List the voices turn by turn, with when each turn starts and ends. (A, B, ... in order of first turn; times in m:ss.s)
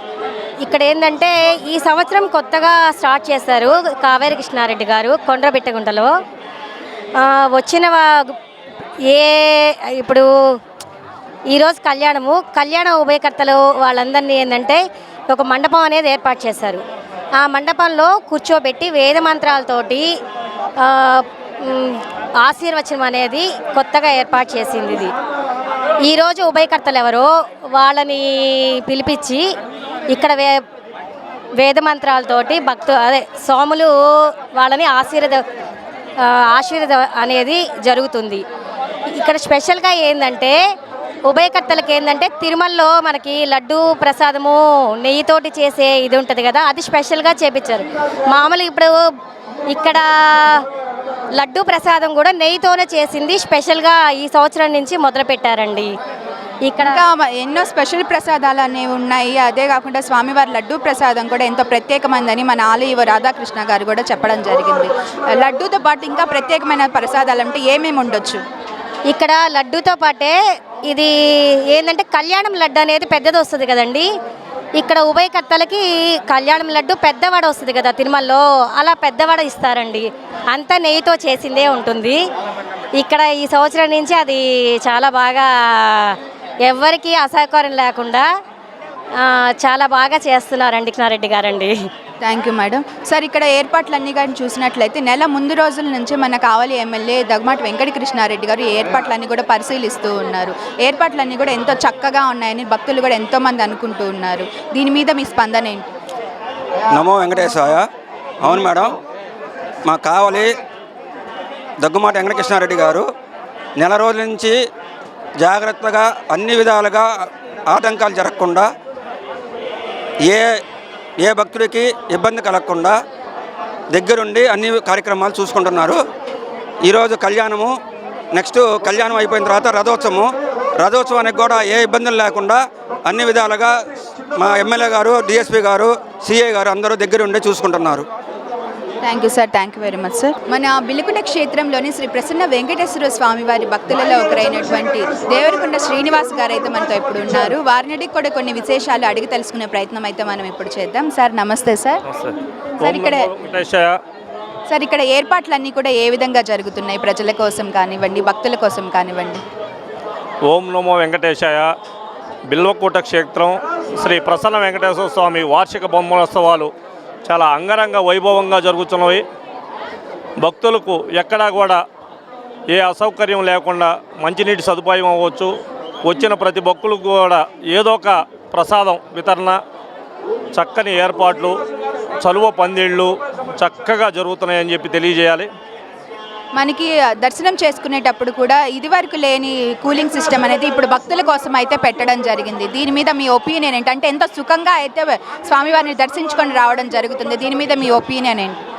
0:00.6-0:06.1 A
0:07.2-0:08.4 A
0:09.1-0:10.3 A
0:11.5-0:16.8 A
0:17.4-0:20.1 A
0:20.8-0:25.1 A
0:26.0-0:29.4 A
0:30.1-0:30.6 A
0:31.6-0:35.4 A
0:36.2-0:38.4 A
0:39.1-0:40.6 A
0:41.3-0:49.0 A
0:49.6-0:50.6 A
0:51.4-0:55.9 A
0:56.7-0:57.0 A
0:56.8-1:08.4 B
1:09.1-1:10.4 A
1:10.9-1:11.1 A
1:11.7-1:14.1 A
1:14.8-1:22.2 A
1:23.0-1:28.2 A
1:29.2-1:31.9 A
1:32.2-1:45.9 B
1:46.9-1:47.9 C
1:48.4-1:49.0 C
1:49.8-1:50.6 C
1:51.8-1:53.1 C
1:53.8-1:54.7 C
1:55.4-1:58.7 C
2:00.2-2:00.6 C
2:01.2-2:03.0 C
2:03.9-2:06.0 C
2:06.8-2:07.7 C
2:08.3-2:13.8 C
2:14.3-2:18.1 C
2:19.0-2:32.0 B
2:32.1-2:34.0 D
2:32.8-2:33.3 B
2:34.7-2:39.4 B
2:40.4-2:41.7 D
2:42.5-2:46.7 D
2:47.3-2:49.2 D
2:50.4-2:51.8 D
2:52.7-2:55.5 D
2:56.0-2:59.6 D
3:00.5-3:01.6 D
3:02.2-3:05.5 D
3:06.6-3:18.6 B